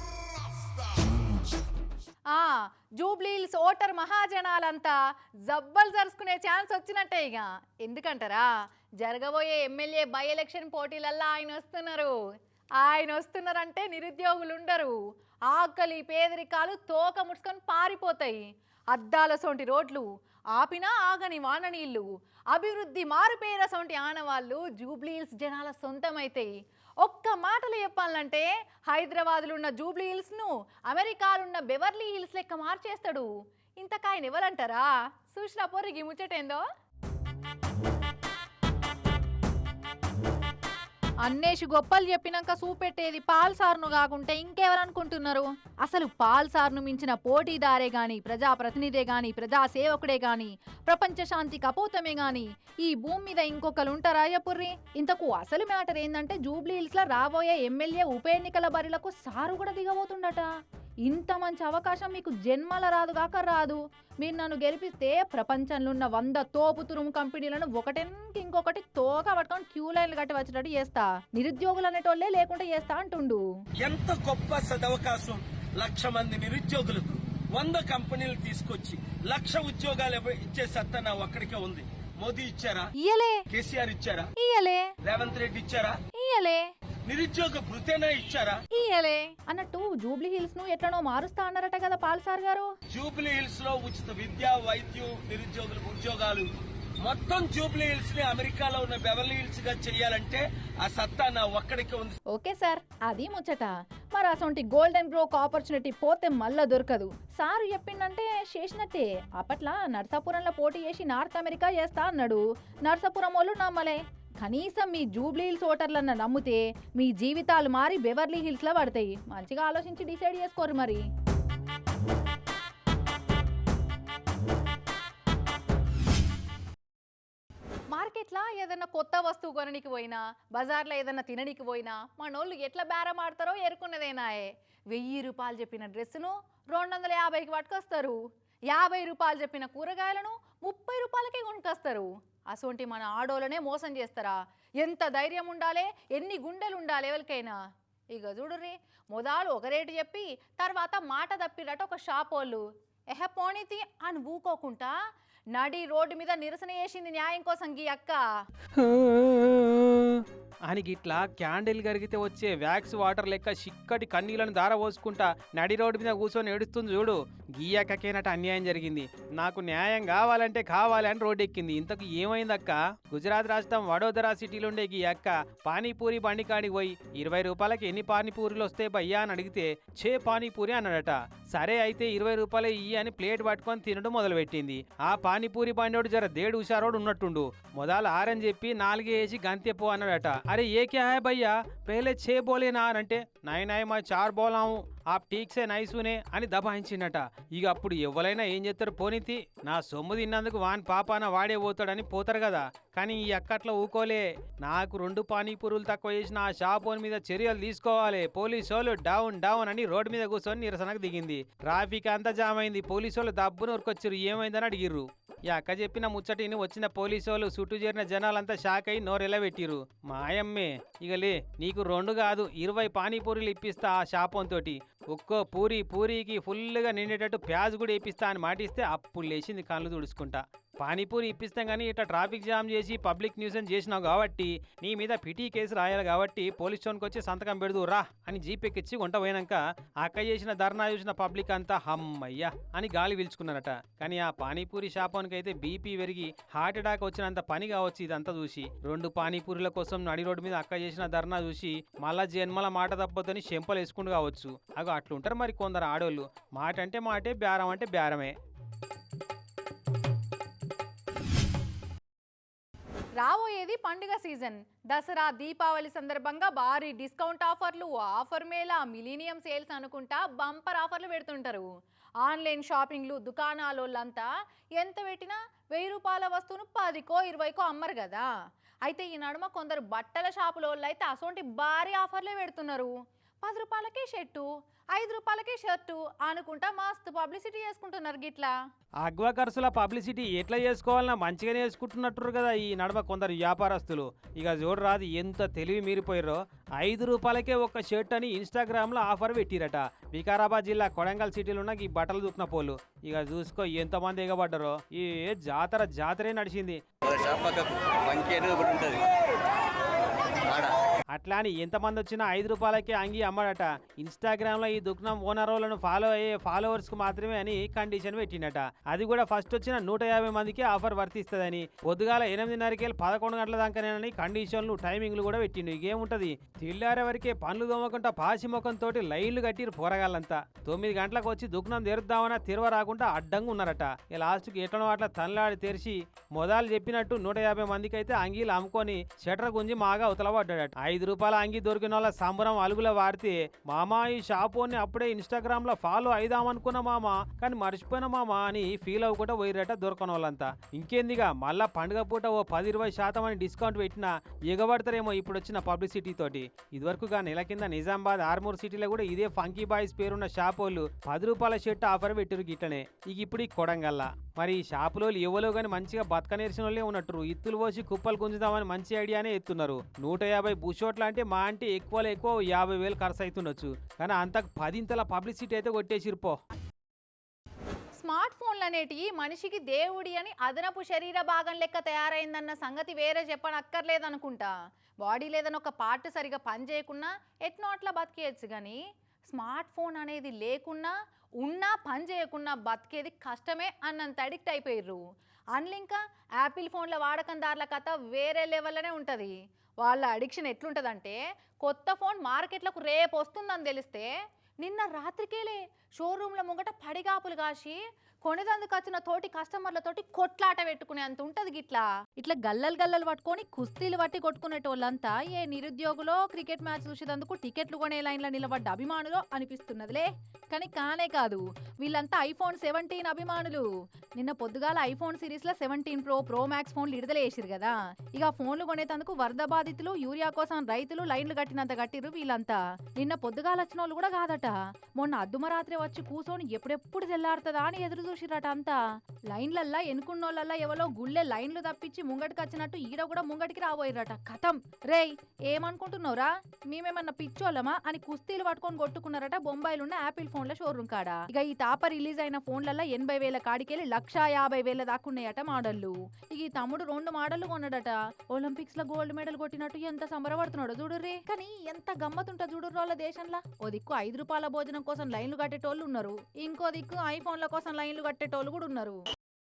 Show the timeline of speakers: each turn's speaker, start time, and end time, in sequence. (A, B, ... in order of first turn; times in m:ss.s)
0:02.3-0:05.0 A
0:05.5-0:08.5 A
0:09.0-0:12.1 A
0:12.8-0:15.0 A
0:15.5-0:26.5 A
0:27.0-0:33.3 A
0:33.8-0:36.6 A
0:41.2-1:00.5 A
1:01.0-1:13.4 A
1:13.8-1:22.9 B
1:23.0-1:23.4 A
1:23.5-1:24.3 B
1:24.4-1:24.9 A
1:25.0-1:26.0 B
1:26.1-1:26.6 A
1:27.0-1:28.6 B
1:28.7-1:32.7 A
1:32.9-1:42.2 B
1:42.3-2:01.0 A
2:07.9-2:18.2 A
2:18.7-2:27.6 A
2:28.1-2:34.9 A
2:35.5-2:38.2 A
2:38.8-4:18.3 C
4:23.2-4:31.7 A
4:32.2-4:38.3 A
4:38.8-4:48.5 A
4:49.0-5:06.8 C
5:07.1-5:09.0 D
5:11.1-6:16.4 C
6:18.0-6:24.5 A
6:25.0-6:35.0 A
6:35.5-6:44.1 A
6:44.6-7:03.6 A
7:04.2-7:18.8 A
7:19.3-7:49.0 A